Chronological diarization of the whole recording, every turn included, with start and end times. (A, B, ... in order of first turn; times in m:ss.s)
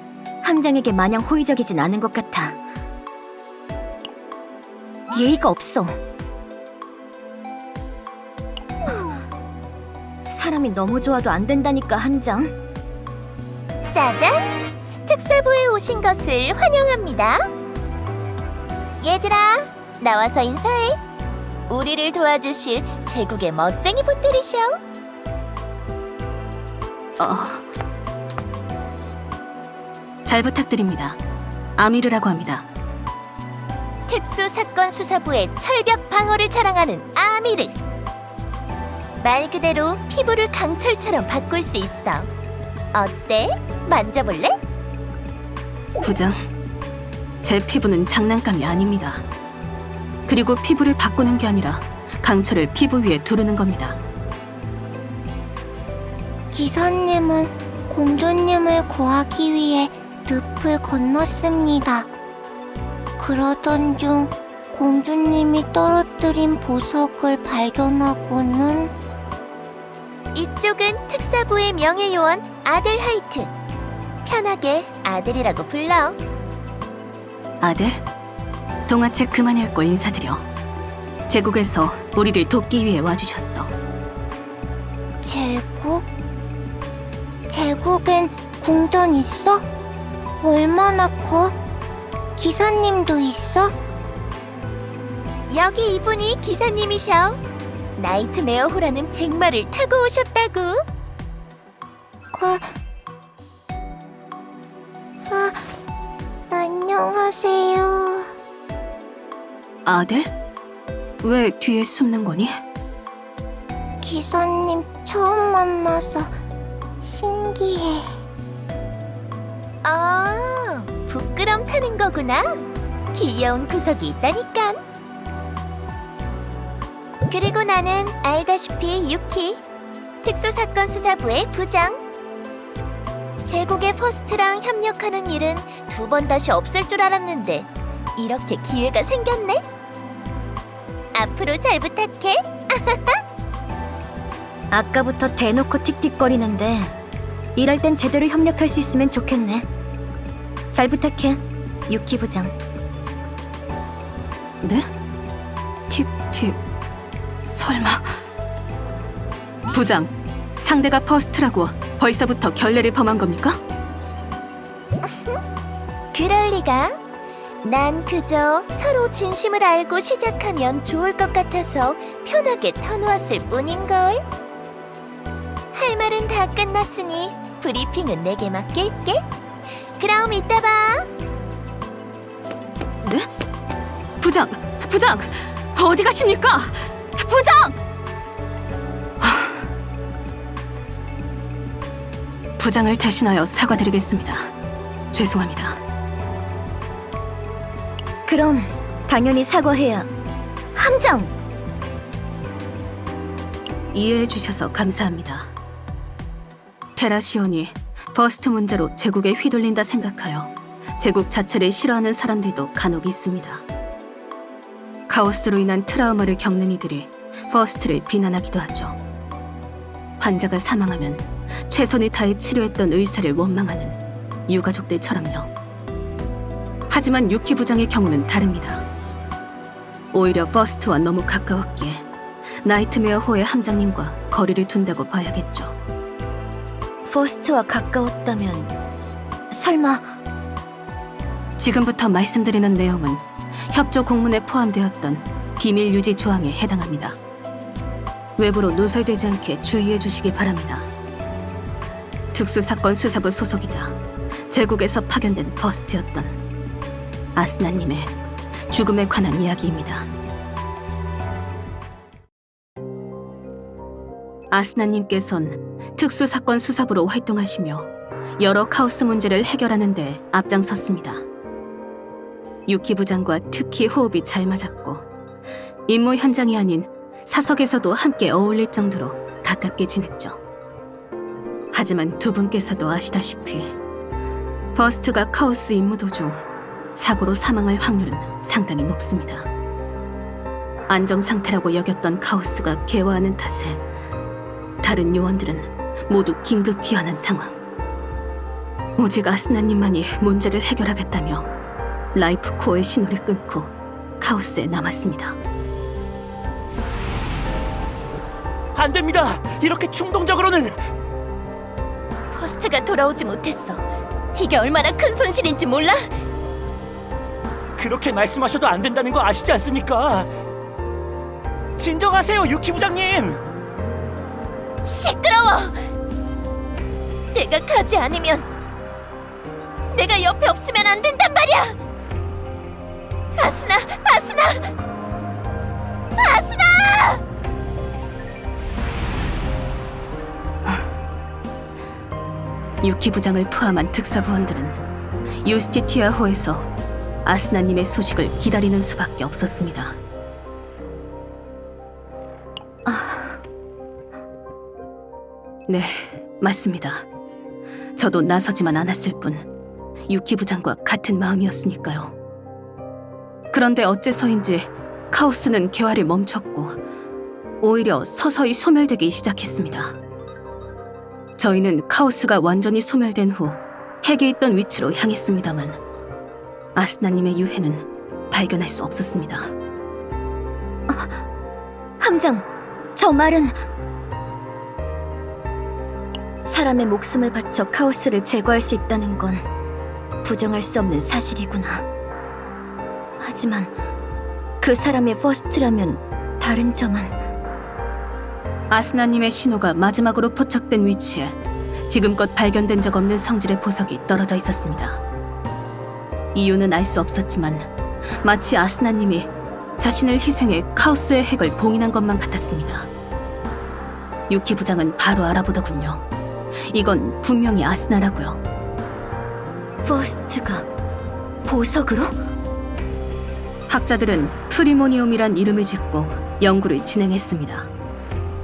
0:00.4-0:02.6 A
0:05.1-0:06.0 A
0:10.3-0:12.5 A
0:13.9-0:14.5 B
0:15.1-0:17.5 B
0:19.0-0:21.0 B
0:21.7-0:24.8 B
0:27.2-0:27.6 C
0:30.3-0:31.2 C
0:31.8-0:32.7 C
0:34.1-0:37.8 B
0:39.2-0:42.3 B
0:42.9-0:44.6 B
0:46.0-0:46.5 C
0:47.4-0:49.3 C
0:50.3-0:54.0 C
0:56.5-1:02.1 D
1:03.2-1:08.9 D
1:10.3-1:13.5 B
1:14.2-1:16.2 B
1:17.6-1:18.0 C
1:18.9-1:20.5 C
1:21.3-1:23.7 C
1:25.2-1:26.1 D
1:27.5-1:29.7 D
1:30.4-1:31.6 D
1:32.4-1:33.7 D
1:35.5-1:37.4 B
1:38.0-1:40.8 B
1:42.3-1:42.6 D
1:45.3-1:45.6 D
1:46.5-1:48.3 D
1:49.9-1:50.3 C
1:51.2-1:52.6 C
1:54.0-1:56.3 D
1:57.0-1:58.1 D
1:59.8-2:04.8 B
2:07.3-2:09.6 B
2:10.2-2:12.0 B
2:13.4-2:19.6 B
2:21.1-2:23.2 B
2:24.7-2:27.0 A
2:27.6-2:29.7 A
2:30.7-2:32.6 A
2:34.6-2:34.9 C
2:35.9-2:36.6 C
2:37.4-2:38.2 C
2:39.7-2:43.6 C
2:45.0-2:45.4 B
2:46.1-2:46.9 B
2:47.6-2:54.2 B
2:55.7-2:59.2 B
3:00.0-3:01.1 B
3:03.0-3:03.3 C
3:04.2-3:07.8 C
3:09.2-3:09.6 C
3:12.6-3:14.5 C
3:15.1-3:15.8 C
3:18.3-3:20.1 A
3:20.8-3:21.3 A
3:23.9-3:25.5 C
3:27.0-3:33.6 C
3:35.1-3:39.0 C
3:40.2-3:45.5 C
3:46.9-3:48.9 C
3:50.1-3:52.0 C
3:52.6-3:55.8 C
3:57.1-3:58.7 A
3:59.5-4:00.1 A
4:01.6-4:07.2 C
4:08.4-4:10.9 C
4:12.3-4:14.0 C
4:14.5-4:16.4 C
4:17.4-4:18.1 C
4:18.7-4:20.1 C
4:24.5-4:31.3 C
4:32.7-4:35.0 C
4:35.9-4:40.4 C
4:41.7-4:43.7 C
4:44.8-4:46.4 C
4:47.0-4:49.5 C
4:50.9-4:53.8 C
4:54.8-4:57.6 C
4:59.0-5:01.5 C
5:02.1-5:05.4 C
5:08.7-5:10.8 E
5:12.3-5:16.1 B
5:17.8-5:20.3 E
5:21.8-5:23.4 E
5:24.8-5:25.8 B
5:27.3-5:28.5 B
5:29.9-5:31.8 B
5:33.4-5:34.7 B
5:36.2-5:37.2 B
5:42.8-5:44.8 C
5:45.4-5:46.7 C
5:47.2-5:50.0 C
5:52.9-5:53.4 A
5:55.7-5:57.1 C
5:58.0-5:59.5 C
6:00.1-6:02.2 C
6:03.5-6:06.8 C
6:07.6-6:10.0 C
6:11.4-6:15.8 C
6:16.8-6:19.5 C
6:20.9-6:21.2 A
6:22.0-6:23.6 A
6:26.4-6:29.4 A
6:30.2-6:31.8 A
6:33.2-6:33.7 A
6:34.6-6:37.2 A
6:38.7-6:41.4 C
6:41.9-6:45.0 C
6:46.3-6:47.7 C
6:48.2-6:52.9 C
6:54.3-6:56.0 C
6:56.7-6:58.4 C
6:59.8-7:00.7 A
7:01.4-7:02.2 A
7:03.7-7:07.7 C